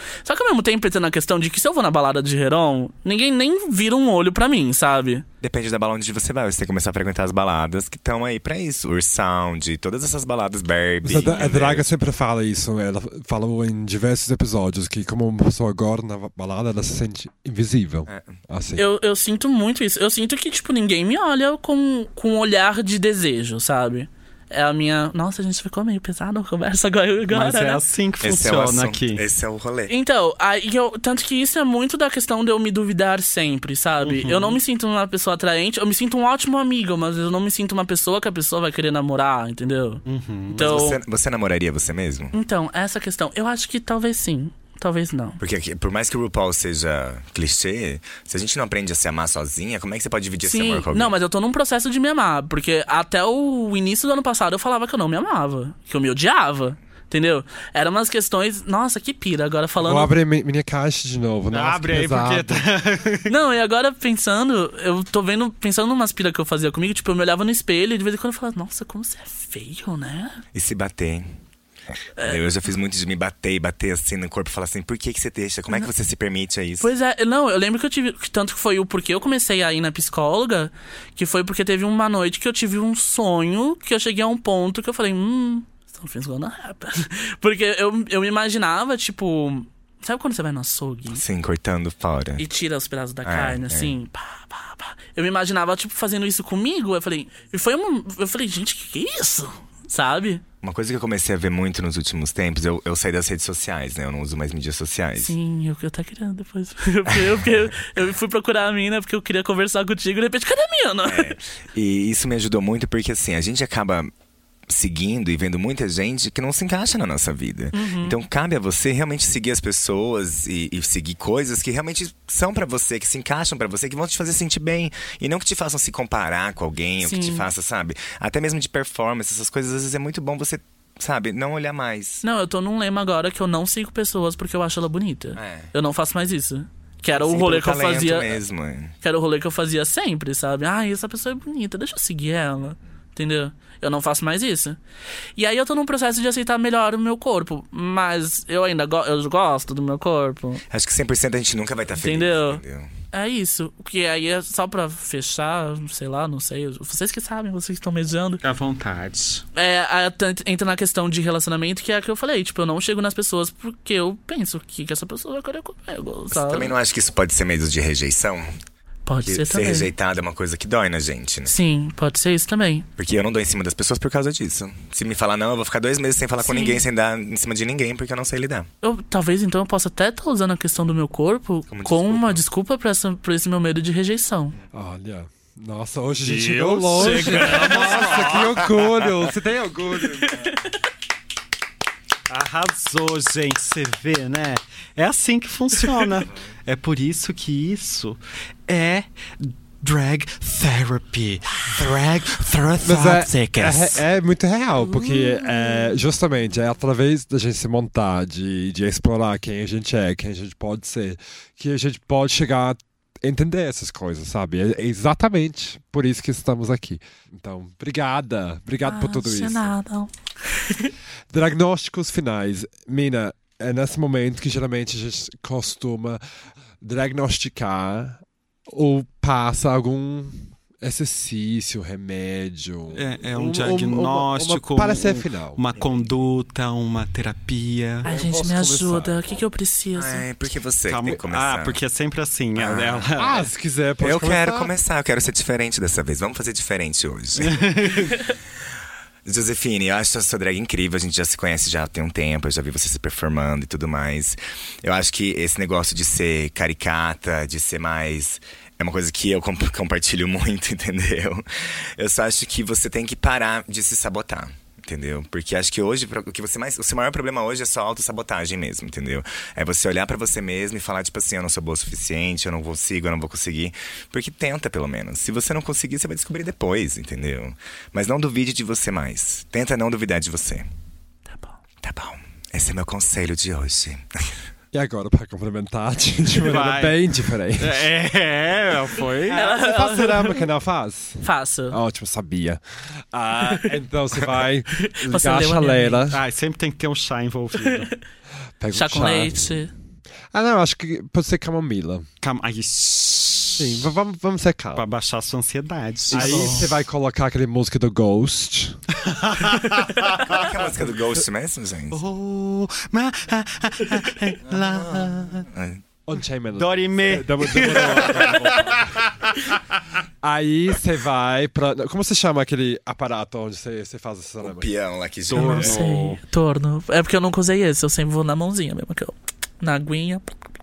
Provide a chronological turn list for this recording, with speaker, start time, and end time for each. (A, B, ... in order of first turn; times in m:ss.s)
0:00.2-0:05.2 A
0:05.4-0:11.9 B
0:11.0-0:18.8 C
0:18.1-0:18.4 B
0:18.8-0:27.8 A
0:27.3-0:29.2 D
0:28.2-0:29.9 B
0:29.9-0:41.0 A
0:34.0-0:34.6 D
0:40.1-0:40.9 D
0:40.6-0:42.3 B
0:42.3-0:45.4 A
0:45.4-0:51.1 B
0:50.4-1:00.1 A
0:59.8-1:02.7 C
1:01.5-1:03.3 D
1:03.3-1:10.4 A
1:10.5-1:11.3 B
1:12.2-1:16.9 B
1:16.8-1:31.2 A
1:31.1-1:32.5 B
1:32.4-1:40.4 A
1:33.2-1:34.0 B
1:40.6-1:45.4 B
1:45.2-1:51.3 A
1:51.1-1:54.1 B
1:54.7-2:12.2 B
1:57.7-1:58.2 A
2:07.0-2:07.4 A
2:12.2-2:18.4 A
2:15.4-2:15.7 B
2:17.2-2:19.0 B
2:19.0-2:24.8 A
2:25.4-2:30.6 A
2:30.7-2:32.9 B
2:32.0-2:32.6 A
2:33.1-2:38.4 A
2:38.4-2:39.4 D
2:39.6-2:46.8 A
2:46.3-2:48.5 B
2:49.1-2:49.9 A
2:49.2-2:51.5 B
2:51.5-2:52.9 A
2:53.0-2:58.7 B
2:56.4-2:56.8 A
2:58.8-3:04.6 A
3:01.7-3:02.4 B
3:04.7-3:10.6 C
3:06.2-3:08.7 D
3:07.2-3:08.8 B
3:12.3-3:24.0 D
3:22.8-3:39.7 C
3:25.0-3:25.2 A
3:38.8-3:40.9 A
3:41.3-3:46.2 C
3:46.8-3:55.6 C
3:52.9-3:58.1 D
3:58.0-4:00.2 A
3:58.0-3:59.2 C
4:00.0-4:01.8 B
4:00.9-4:03.5 D
4:02.6-4:03.1 B
4:03.2-4:04.7 C
4:04.0-4:08.4 B
4:07.4-4:08.2 D
4:09.2-4:40.7 B
4:41.3-4:41.6 A
4:41.8-4:44.4 B
4:44.7-4:47.9 C
4:46.4-4:47.0 D
4:47.6-4:49.4 D
4:49.3-4:50.5 A
4:49.3-4:56.2 C
4:51.2-4:51.8 A
4:53.4-4:53.7 A
4:54.7-4:56.0 A
4:56.1-4:57.9 D
4:58.6-4:59.6 C
4:58.7-4:59.7 A
5:00.3-5:02.1 C
5:02.2-5:03.7 D
5:03.6-5:04.8 C
5:04.8-5:06.7 D
5:06.1-5:08.8 C
5:06.1-5:06.7 A
5:09.0-5:10.5 D
5:09.8-5:10.2 A
5:10.2-5:12.1 B
5:11.9-5:15.5 D
5:14.5-5:15.8 B
5:16.1-5:19.1 C
5:16.6-5:19.1 D
5:20.2-5:24.7 C
5:24.4-5:25.8 B
5:25.3-5:26.2 D
5:25.3-5:30.3 A